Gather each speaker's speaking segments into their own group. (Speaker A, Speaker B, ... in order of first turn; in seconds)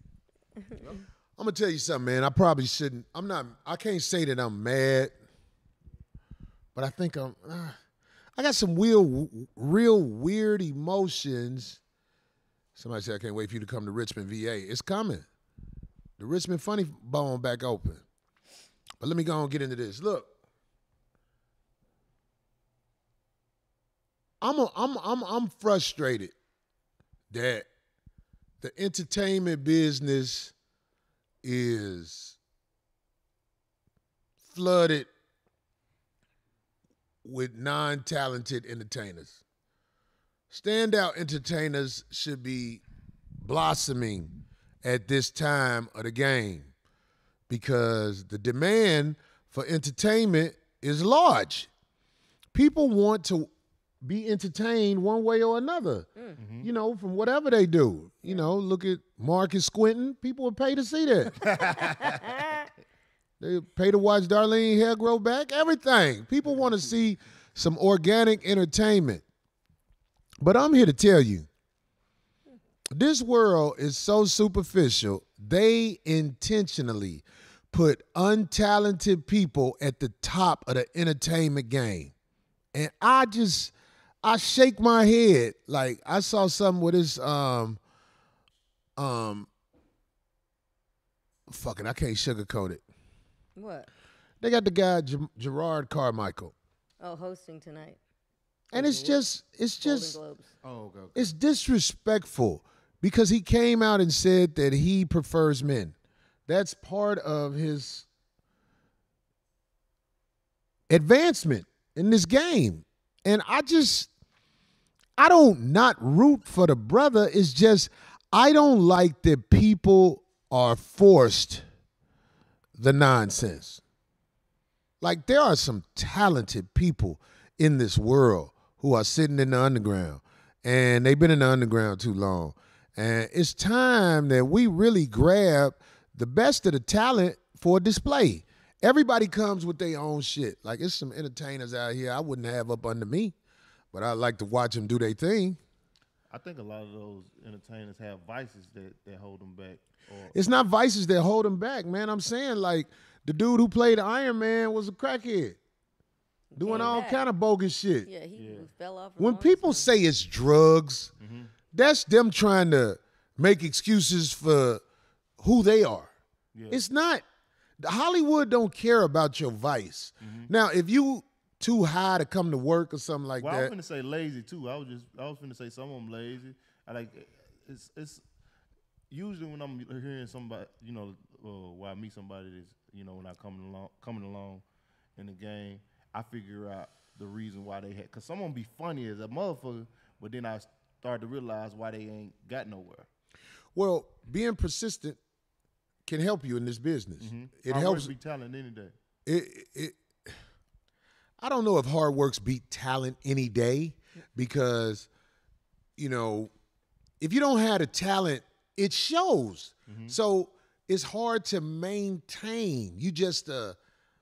Speaker A: 1.4-5.2, 6.7-7.8, 8.4-11.8, 12.8-15.3, 16.2-18.0, 19.0-20.3, 24.4-26.3, 27.3-27.7, 28.6-30.5, 31.4-32.4, 34.4-35.1, 37.2-39.4, 40.5-42.8, 43.4-46.7, 47.5-51.7, 52.5-53.5, 54.0-56.1, 56.6-61.4, 63.4-69.2, 70.4-71.5, 72.9-82.1, 82.7-87.8, 89.0-89.5, 91.5-92.8, 94.4-96.5, 98.7-100.2, 101.1-105.9, 106.5-108.1, 110.9-114.1, 115.2-121.6, 122.8-123.8, 125.0-143.3, 143.9-145.6, 150.3-155.6, 156.6-158.1, 159.2-161.1, 161.7-164.8, 165.4-166.1, 166.7-167.2, 167.8-173.7, 193.7-195.2, 196.1-198.1, 199.2-200.0, 201.4-205.1, 206.0-206.5, 207.2-213.8
Speaker B: 56.4-56.7, 61.4-62.3, 98.8-99.2, 100.6-101.3, 146.3-150.4, 158.4-158.7, 161.2-161.5, 166.5-166.8, 170.2-170.5, 173.4-178.2, 179.1-184.6, 185.2-193.1, 197.2-198.9, 209.9-210.1
Speaker C: 61.5-62.7, 93.5-93.9, 97.0-98.0, 98.8-99.1, 99.8-100.5, 156.5-157.2, 158.0-159.9